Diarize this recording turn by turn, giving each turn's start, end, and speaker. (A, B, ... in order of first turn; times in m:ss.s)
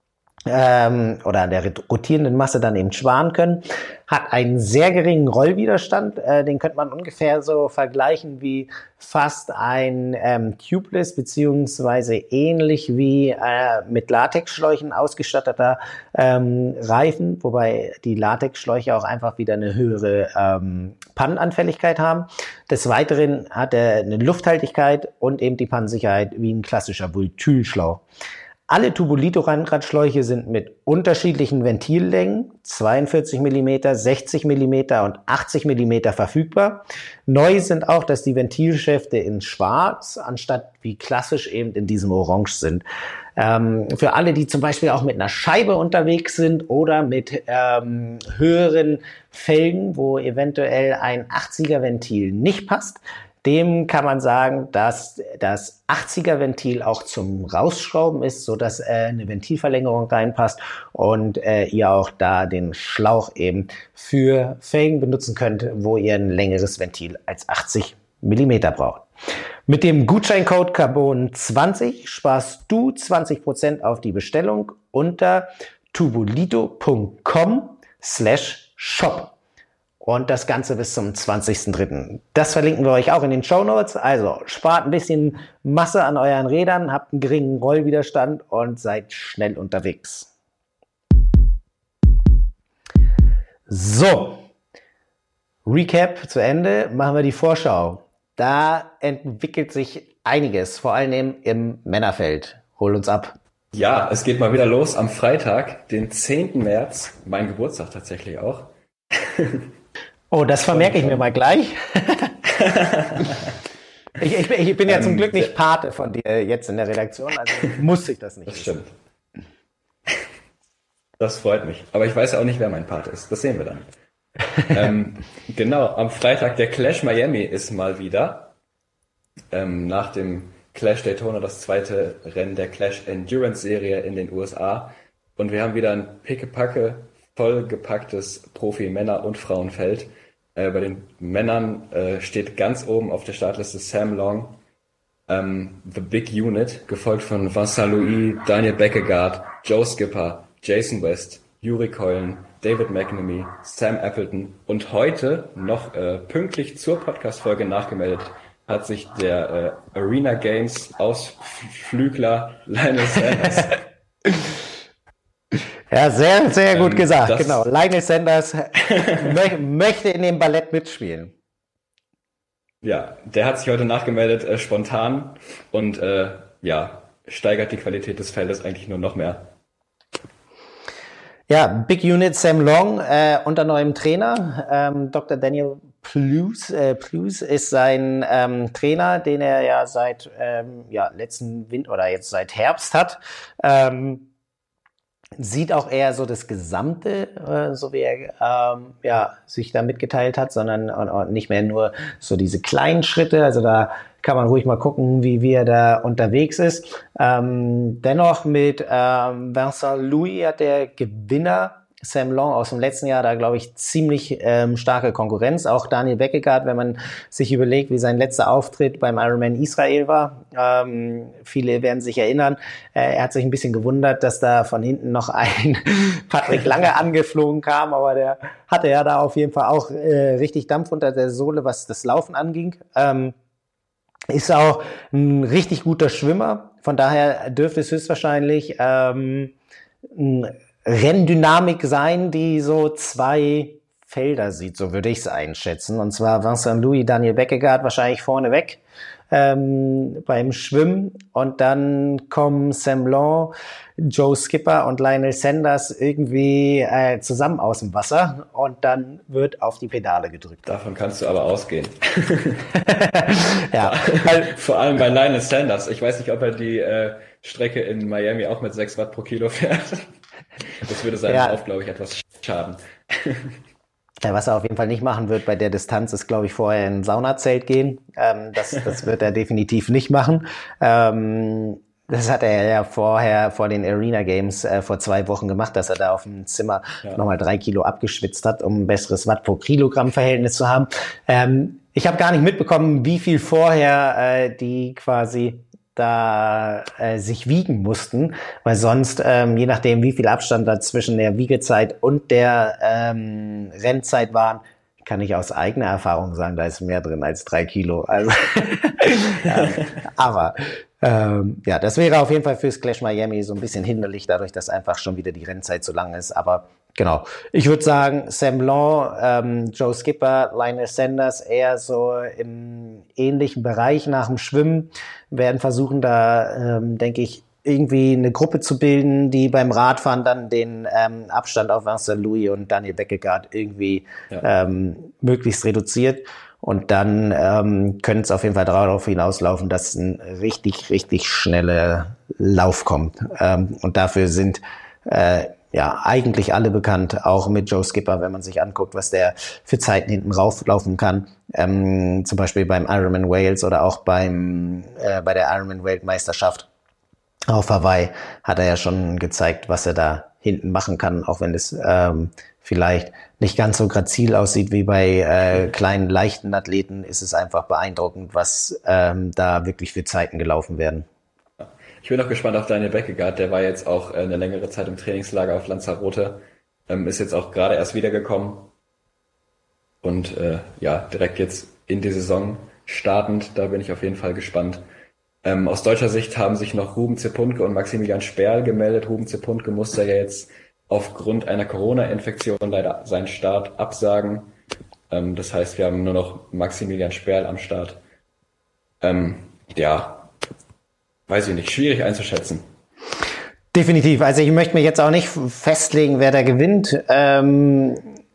0:00.5-0:28.0 A
0:28.7-0:42.8 A
0:43.4-1:09.1 A
1:09.7-1:19.3 A
1:20.0-1:30.3 A
1:33.7-1:34.4 A
1:35.6-1:43.4 A
1:43.7-1:49.7 B
1:50.3-1:52.4 A
1:50.7-1:51.2 B
1:52.4-1:53.6 B
1:54.2-1:58.8 A
1:54.8-1:55.5 B
1:58.5-1:58.9 B
2:01.2-2:03.9 B
2:04.7-2:08.5 B
2:09.5-2:24.6 B
2:25.3-2:43.8 B
2:45.9-2:51.3 A
2:46.7-2:47.6 B
2:48.9-2:49.3 B
2:52.8-2:59.5 B
3:01.5-3:14.3 A
3:15.4-3:53.3 A
3:54.3-3:59.5 A
4:00.1-4:08.8 A
4:09.3-4:20.6 A
4:20.6-4:22.7 B
4:22.7-4:24.5 A
4:23.8-4:30.1 B
4:30.7-4:33.6 B
4:31.2-4:31.6 A
4:34.2-5:56.7 A
5:09.5-5:09.9 B
5:57.5-6:11.0 A
6:11.6-6:18.7 B
6:20.0-6:24.8 B
6:25.4-6:34.5 B
6:35.1-6:38.0 B
6:39.0-6:40.3 B
6:41.3-6:42.6 B
6:43.7-6:48.1 A